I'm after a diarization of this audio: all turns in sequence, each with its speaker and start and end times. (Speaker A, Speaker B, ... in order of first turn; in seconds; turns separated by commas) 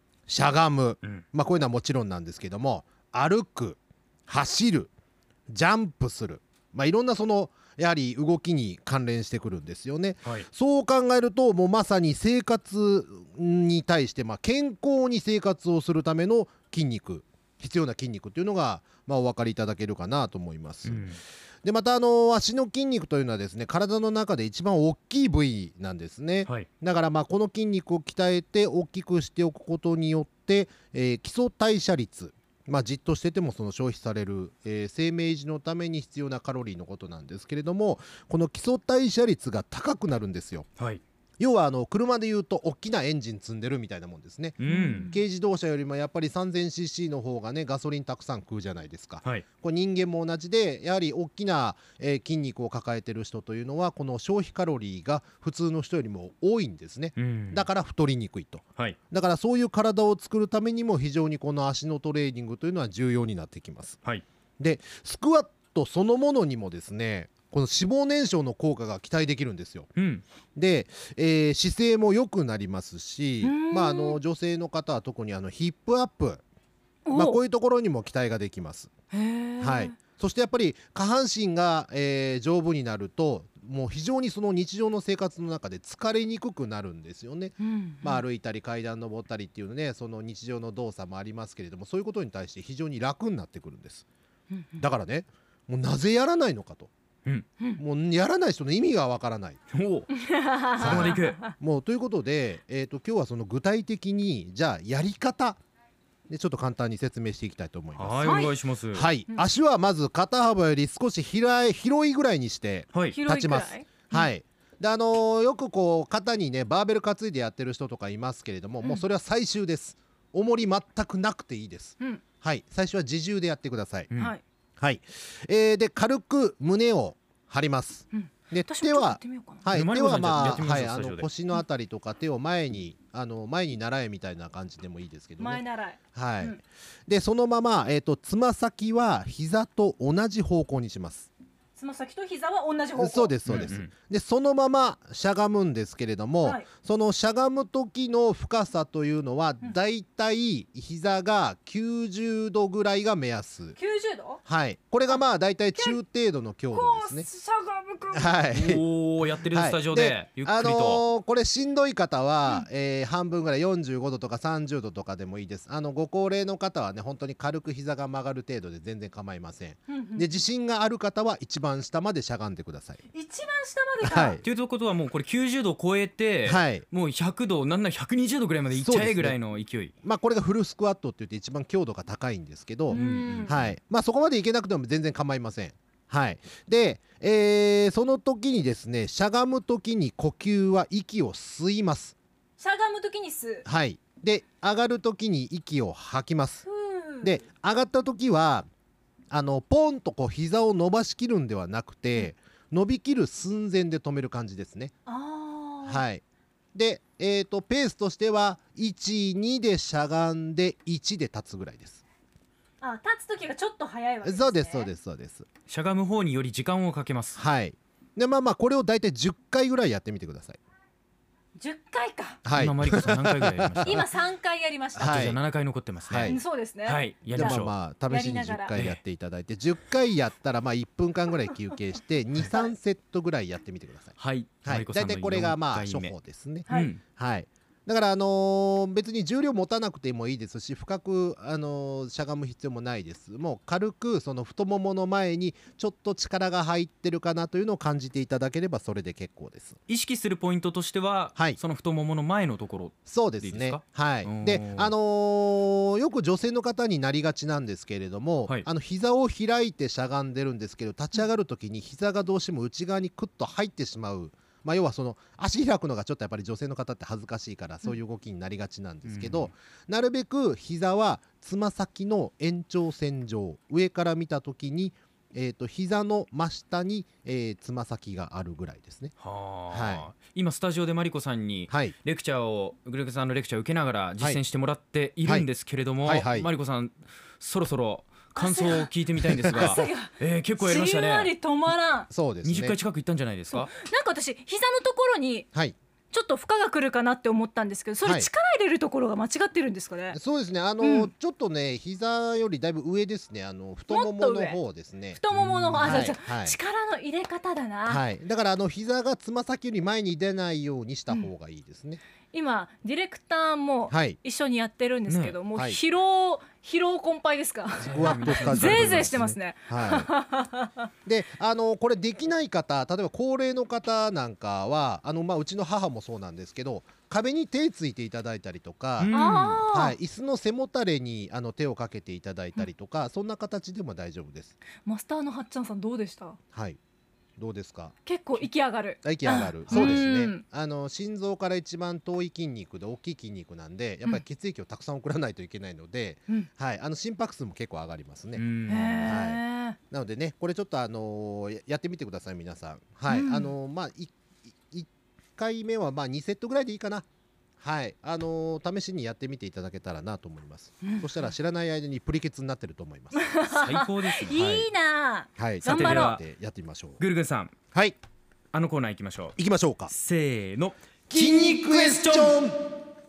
Speaker A: 0.3-4.9, Speaker A: 5.5-21.1, Speaker B: 20.9-21.2, Speaker A: 21.6-40.7, Speaker A: 41.4-64.0, Speaker B: 44.6-45.1, Speaker C: 44.7-45.2, Speaker B: 57.2-57.7, Speaker A: 64.6-69.9, Speaker B: 69.9-70.2, Speaker A: 70.5-76.4, Speaker C: 73.4-74.2, Speaker C: 77.1-77.4, Speaker A: 77.1-78.9, Speaker C: 79.1-80.0, Speaker A: 79.6-94.1, Speaker C: 87.6-88.2, Speaker C: 94.5-94.8, Speaker A: 94.8-96.9, Speaker A: 97.8-99.6, Speaker B: 99.7-100.1, Speaker C: 100.1-101.5, Speaker A: 100.8-105.6, Speaker B: 100.8-101.4, Speaker A: 106.3-124.1, Speaker B: 108.0-109.1, Speaker C: 108.2-108.5, Speaker C: 113.1-114.3, Speaker C: 124.2-124.4, Speaker A: 124.8-141.3, Speaker C: 128.1-129.7, Speaker B: 129.7-131.3, Speaker C: 135.4-136.6, Speaker C: 141.8-143.5, Speaker A: 143.0-153.8, Speaker B: 143.4-143.9, Speaker C: 153.8-154.4, Speaker A: 154.4-157.3, Speaker C: 156.7-158.3, Speaker A: 158.1-158.8, Speaker B: 158.5-161.0, Speaker A: 159.4-173.0, Speaker C: 169.9-170.3, Speaker C: 173.1-174.4, Speaker A: 174.0-174.4, Speaker B: 174.4-179.9, Speaker A: 176.4-176.8, Speaker A: 178.7-179.4, Speaker A: 180.0-192.2, Speaker C: 182.9-183.6, Speaker B: 182.9-183.7, Speaker C: 192.6-193.6, Speaker A: 193.6-196.7, Speaker C: 196.6-197.4, Speaker A: 197.2-198.7, Speaker A: 199.3-204.9, Speaker C: 205.1-206.1, Speaker A: 205.8-206.2, Speaker A: 206.7-212.0, Speaker C: 212.8-214.9, Speaker A: 214.2-215.5, Speaker B: 215.7-217.4, Speaker A: 217.4-220.6, Speaker C: 221.6-222.4, Speaker A: 222.4-224.1, Speaker B: 222.5-224.1, Speaker C: 223.8-225.2, Speaker A: 224.9-225.4, Speaker B: 225.0-227.7, Speaker A: 226.1-226.4, Speaker C: 226.2-228.8, Speaker A: 227.3-249.8, Speaker B: 228.8-229.0, Speaker B: 234.2-236.1, Speaker B: 236.7-237.0, Speaker B: 249.9-254.9, Speaker A: 253.1-279.1, Speaker B: 269.1-269.5, Speaker B: 279.2-291.3, Speaker A: 279.7-280.1, Speaker A: 281.7-281.9, Speaker A: 286.0-286.5, Speaker C: 288.3-288.9, Speaker C: 289.5-292.1, Speaker A: 289.5-289.8, Speaker A: 292.1-292.8, Speaker B: 292.4-293.7, Speaker C: 293.5-295.5, Speaker C: 296.1-300.2, Speaker A: 298.0-298.3, Speaker A: 300.1-305.2, Speaker C: 300.8-301.1, Speaker C: 303.9-304.6, Speaker C: 305.1-308.0, Speaker B: 305.3-306.1, Speaker A: 305.8-306.6, Speaker A: 307.9-312.0, Speaker C: 312.3-320.9, Speaker A: 313.9-314.2, Speaker B: 315.1-315.4, Speaker A: 315.6-315.8, Speaker B: 317.8-319.2, Speaker A: 317.8-320.1, Speaker A: 321.1-334.6, Speaker B: 329.0-329.6, Speaker C: 329.1-329.9, Speaker C: 334.8-336.4, Speaker A: 336.5-336.8, Speaker A: 337.4-338.5, Speaker C: 338.1-340.4, Speaker A: 339.0-348.4, Speaker B: 339.6-340.0, Speaker B: 348.3-349.2, Speaker C: 348.7-349.8, Speaker A: 349.0-354.1, Speaker C: 353.1-353.5, Speaker A: 354.7-357.1, Speaker A: 357.6-363.4, Speaker C: 360.8-361.1, Speaker C: 363.1-366.2, Speaker B: 363.5-364.4, Speaker A: 364.3-364.7, Speaker A: 365.4-367.0, Speaker B: 365.6-366.2, Speaker B: 367.0-367.5, Speaker A: 367.7-368.0, Speaker B: 368.5-369.4, Speaker A: 369.4-369.9, Speaker B: 369.9-372.4, Speaker A: 371.1-372.6